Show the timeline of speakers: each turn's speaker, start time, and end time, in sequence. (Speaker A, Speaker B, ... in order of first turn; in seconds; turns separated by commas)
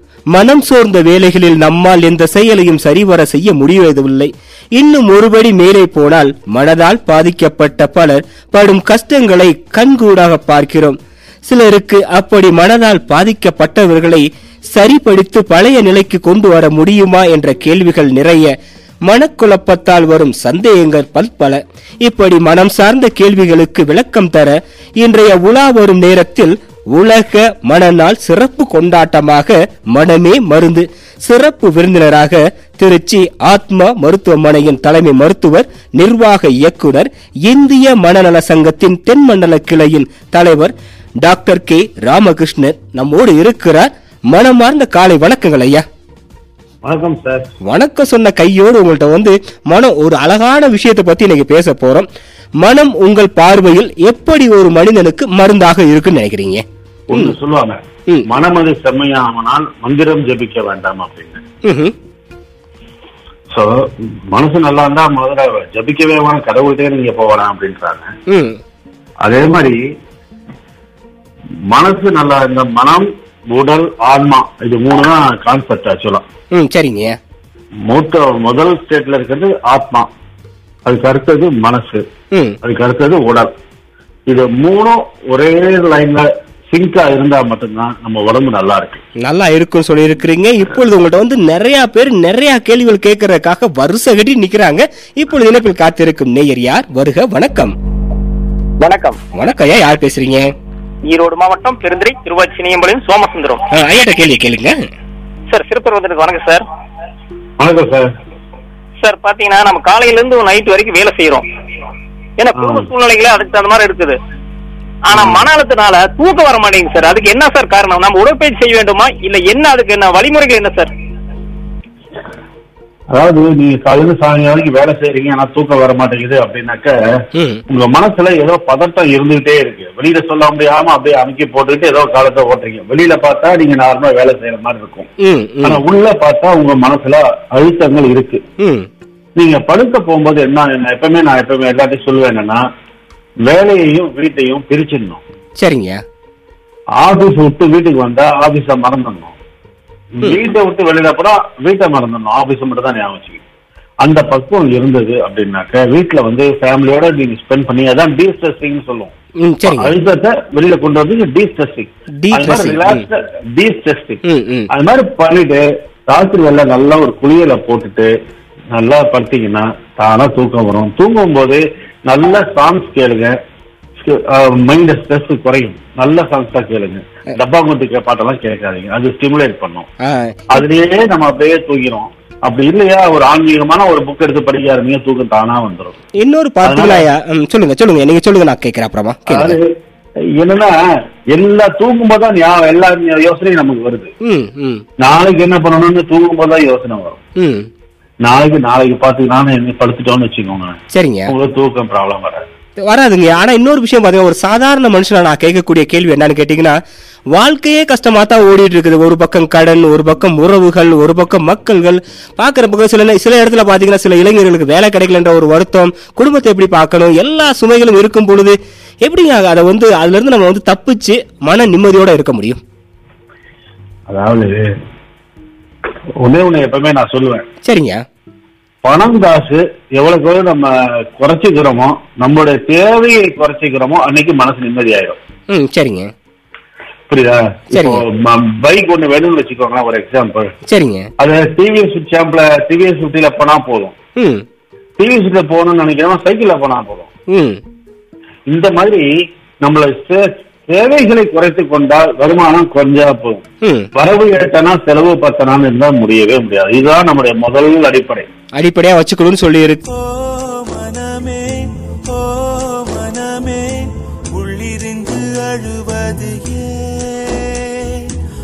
Speaker A: 0.3-11.0, Speaker A: 11.5-18.5, Speaker A: 19.1-45.8, Speaker B: 46.8-47.5, Speaker A: 47.7-52.1, Speaker A: 52.6-57.4, Speaker B: 57.1-61.4, Speaker A: 61.6-61.9, Speaker B: 64.3-68.1, Speaker A: 68.3-68.6, Speaker B: 69.2-69.8, Speaker B: 71.7-76.2, Speaker A: 76.5-77.2, Speaker B: 77.9-80.1, Speaker B: 80.9-82.0, Speaker B: 82.6-83.5, Speaker B: 84.3-89.0, Speaker A: 89.2-97.7, Speaker C: 98.8-99.2, Speaker A: 99.3-100.5, Speaker C: 101.1-103.7, Speaker A: 103.7-104.8, Speaker C: 105.5-106.6, Speaker B: 107.6-108.1, Speaker C: 109.0-111.5, Speaker C: 112.4-114.2, Speaker B: 112.5-112.9, Speaker C: 115.1-120.9, Speaker B: 115.1-115.5, Speaker B: 123.1-126.9, Speaker A: 127.3-127.6, Speaker B: 127.7-135.1, Speaker A: 135.2-135.8, Speaker B: 135.6-138.4, Speaker A: 138.6-138.9, Speaker B: 139.4-142.6, Speaker B: 143.5-145.2, Speaker A: 145.6-146.0, Speaker B: 147.0-149.3, Speaker B: 150.2-153.4, Speaker B: 154.0-159.1, Speaker A: 159.4-159.9, Speaker B: 159.7-168.1, Speaker A: 162.2-163.0, Speaker A: 164.2-164.7, Speaker B: 168.7-173.3, Speaker B: 174.0-179.9, Speaker A: 180.0-180.6, Speaker B: 180.5-186.0, Speaker A: 186.2-189.6, Speaker B: 186.6-187.1, Speaker B: 189.3-189.7, Speaker B: 190.4-190.8, Speaker B: 191.3-194.1, Speaker A: 194.2-194.8, Speaker B: 195.0-197.2, Speaker A: 197.4-197.7, Speaker B: 198.2-202.4, Speaker A: 200.9-201.3, Speaker A: 202.9-206.8, Speaker A: 207.3-222.6, Speaker B: 224.1-224.6, Speaker B: 226.2-227.4, Speaker A: 227.7-228.0, Speaker B: 228.8-235.2, Speaker A: 235.5-236.1, Speaker B: 237.1-240.5, Speaker A: 237.7-238.0, Speaker A: 240.7-241.1, Speaker B: 241.2-243.9, Speaker A: 244.2-244.4, Speaker B: 245.0-247.1, Speaker A: 247.3-247.6, Speaker B: 248.5-249.1, Speaker B: 249.6-253.4, Speaker A: 253.6-253.9, Speaker B: 253.9-258.3, Speaker A: 258.6-259.8, Speaker D: 259.9-268.1